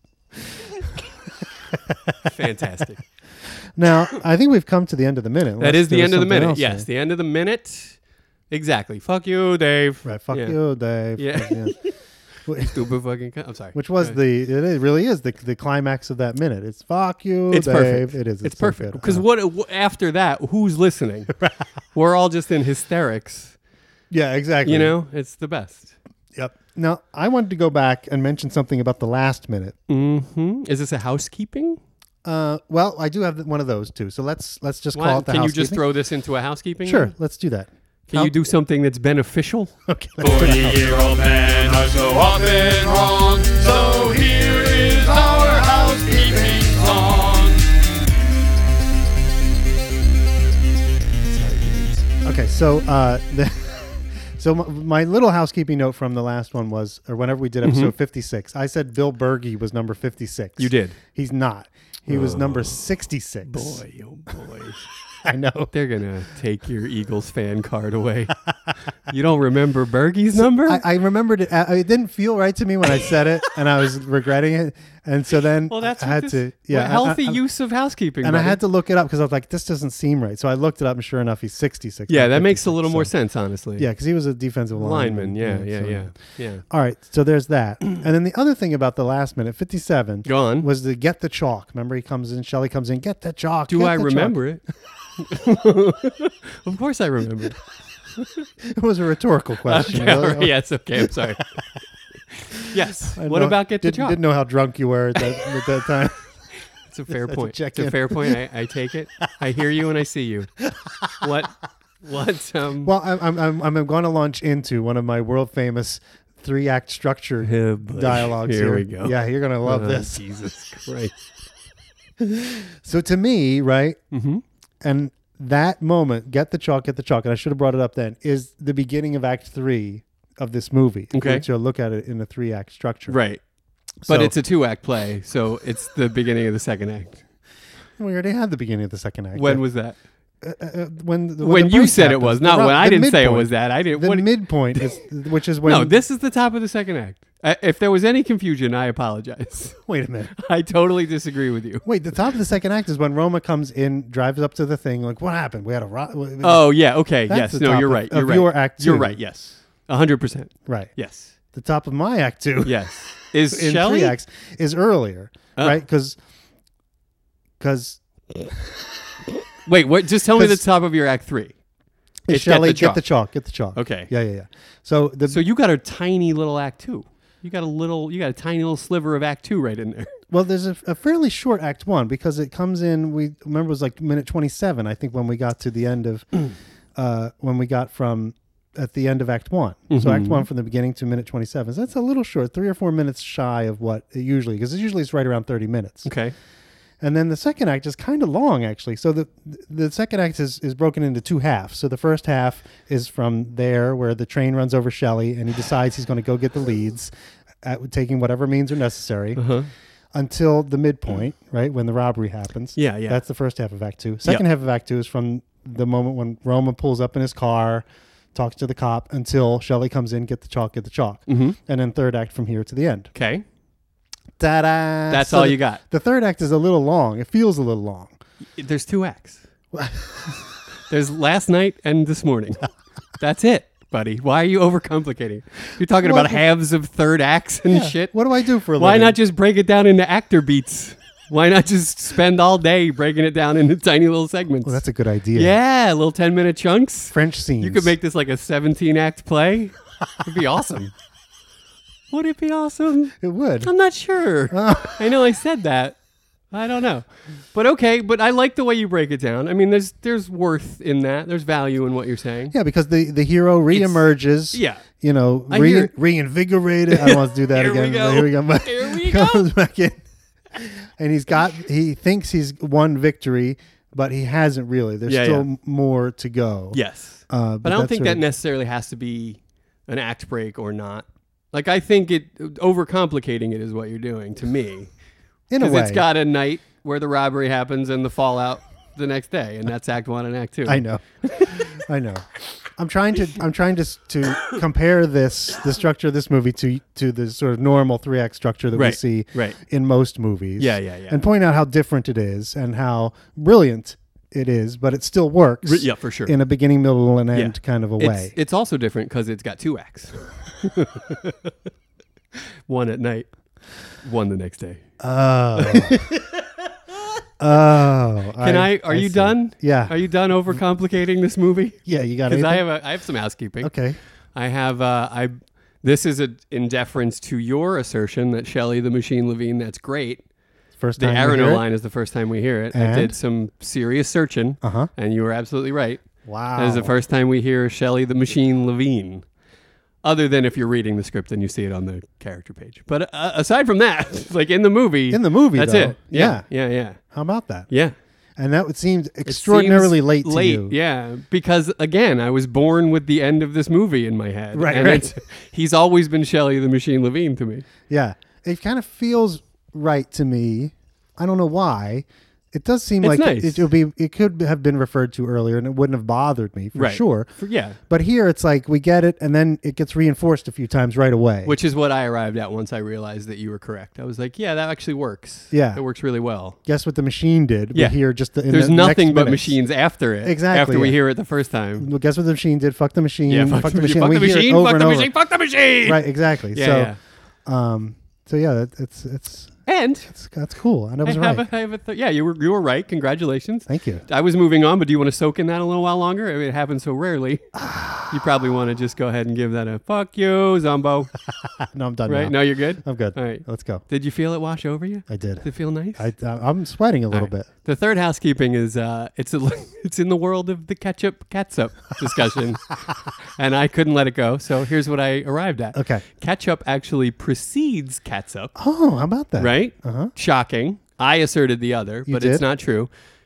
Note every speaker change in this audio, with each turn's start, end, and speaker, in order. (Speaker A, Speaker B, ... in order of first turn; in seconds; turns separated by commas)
Speaker A: 1.7-2.2, Speaker B: 2.3-3.0, Speaker A: 3.8-6.9, Speaker B: 5.6-8.0, Speaker B: 8.5-10.6, Speaker A: 10.1-11.8, Speaker B: 11.2-11.9, Speaker A: 12.4-12.8, Speaker B: 12.6-14.2, Speaker A: 13.7-19.2, Speaker B: 17.5-21.4, Speaker B: 21.9-23.6, Speaker A: 24.1-24.9, Speaker B: 24.6-25.9, Speaker A: 26.4-29.8, Speaker B: 29.9-31.8, Speaker A: 32.2-35.8, Speaker B: 34.9-37.1, Speaker A: 36.8-38.3, Speaker B: 38.1-39.7, Speaker A: 39.9-40.9, Speaker C: 40.2-47.8, Speaker B: 51.3-52.0, Speaker A: 52.2-63.8, Speaker B: 57.6-57.9, Speaker B: 60.6-61.0, Speaker B: 62.1-62.9, Speaker B: 63.5-64.9, Speaker A: 65.2-65.7, Speaker B: 65.7-68.4, Speaker B: 69.1-70.8, Speaker A: 70.4-77.4, Speaker B: 75.7-78.6, Speaker A: 78.2-83.1, Speaker B: 82.1-83.9, Speaker A: 83.8-94.4, Speaker B: 84.8-86.6, Speaker B: 90.2-90.7, Speaker B: 93.7-94.6, Speaker B: 95.2-97.6, Speaker A: 98.6-101.4, Speaker B: 99.7-101.5, Speaker B: 102.3-104.2, Speaker A: 102.8-106.2, Speaker B: 106.9-110.5, Speaker A: 107.1-108.4, Speaker B: 111.2-112.9, Speaker A: 112.8-120.2, Speaker B: 117.4-121.2, Speaker A: 122.2-124.0, Speaker B: 124.1-124.4, Speaker A: 124.8-133.2, Speaker B: 131.1-131.5, Speaker B: 133.1-133.4, Speaker A: 134.0-134.3, Speaker B: 134.1-137.2, Speaker A: 138.0-139.6, Speaker B: 139.3-140.0, Speaker A: 140.4-146.0, Speaker B: 141.4-145.0, Speaker B: 145.7-149.8, Speaker A: 149.9-150.3, Speaker B: 150.4-151.8, Speaker A: 151.8-156.7, Speaker B: 156.4-161.3, Speaker A: 157.3-159.2, Speaker A: 160.7-160.9, Speaker A: 161.5-162.9, Speaker B: 162.6-164.2, Speaker A: 163.5-166.2, Speaker A: 167.6-168.0, Speaker B: 169.7-171.6, Speaker A: 170.3-170.6, Speaker A: 172.3-175.4, Speaker B: 172.3-173.0, Speaker B: 173.8-174.1, Speaker B: 175.3-180.1, Speaker A: 180.3-186.3, Speaker A: 187.0-196.1, Speaker B: 189.9-190.5, Speaker B: 196.1-196.3, Speaker A: 197.0-207.1, Speaker A: 207.6-209.4, Speaker B: 209.4-209.7, Speaker A: 210.1-223.1, Speaker B: 212.8-213.2, Speaker B: 221.3-221.6, Speaker B: 223.1-223.4, Speaker A: 224.4-228.2, Speaker B: 225.1-225.8, Speaker B: 228.6-229.4, Speaker A: 229.7-230.4, Speaker B: 230.9-232.7, Speaker B: 233.2-238.1, Speaker A: 236.0-236.4, Speaker A: 237.7-239.2, Speaker B: 238.8-244.8, Speaker A: 244.6-245.6, Speaker B: 245.3-250.9, Speaker A: 247.1-247.9, Speaker B: 252.1-256.0, Speaker A: 253.2-253.7, Speaker A: 254.5-255.2, Speaker B: 256.5-262.5, Speaker A: 262.5-276.8, Speaker B: 263.7-264.8, Speaker B: 265.5-265.9, Speaker B: 266.9-269.5, Speaker B: 275.1-275.5, Speaker B: 276.7-284.9, Speaker A: 277.3-278.2, Speaker A: 285.5-286.0, Speaker B: 285.6-291.7, Speaker A: 290.7-308.3, Speaker B: 298.8-299.6, Speaker B: 300.6-301.2, Speaker B: 305.6-306.4, Speaker B: 307.3-311.5, Speaker B: 312.7-313.3, Speaker B: 314.0-314.8, Speaker A: 315.0-316.3, Speaker B: 315.6-315.9, Speaker A: 317.4-320.0, Speaker B: 318.4-323.7, Speaker A: 321.9-322.7, Speaker A: 323.6-324.0, Speaker B: 324.3-330.2, Speaker A: 330.8-331.6, Speaker B: 331.0-336.0, Speaker A: 332.7-333.1, Speaker A: 334.6-334.9, Speaker A: 336.3-336.9, Speaker B: 336.6-339.3, Speaker B: 340.0-347.0, Speaker A: 345.1-346.5, Speaker A: 347.0-347.7, Speaker B: 347.7-347.9, Speaker A: 348.4-350.8, Speaker B: 349.3-357.7, Speaker A: 354.5-355.2, Speaker A: 357.9-367.3, Speaker B: 363.0-363.7, Speaker B: 366.8-367.8, Speaker A: 367.8-371.6, Speaker B: 371.4-376.6, Speaker A: 375.5-375.8, Speaker A: 376.7-379.6, Speaker B: 378.5-381.9, Speaker A: 380.2-381.0, Speaker A: 381.8-385.1, Speaker B: 383.3-387.0, Speaker A: 385.9-386.9, Speaker A: 387.5-389.6, Speaker B: 389.7-390.1, Speaker A: 390.1-391.4, Speaker B: 391.0-397.5, Speaker A: 393.7-394.1, Speaker A: 397.6-398.1, Speaker B: 398.1-401.1, Speaker A: 401.6-403.8, Speaker B: 402.1-406.1, Speaker A: 405.1-407.5, Speaker B: 407.1-412.8, Speaker B: 413.4-418.5, Speaker A: 415.8-416.0, Speaker A: 418.6-420.1, Speaker B: 419.4-422.9, Speaker A: 422.1-422.4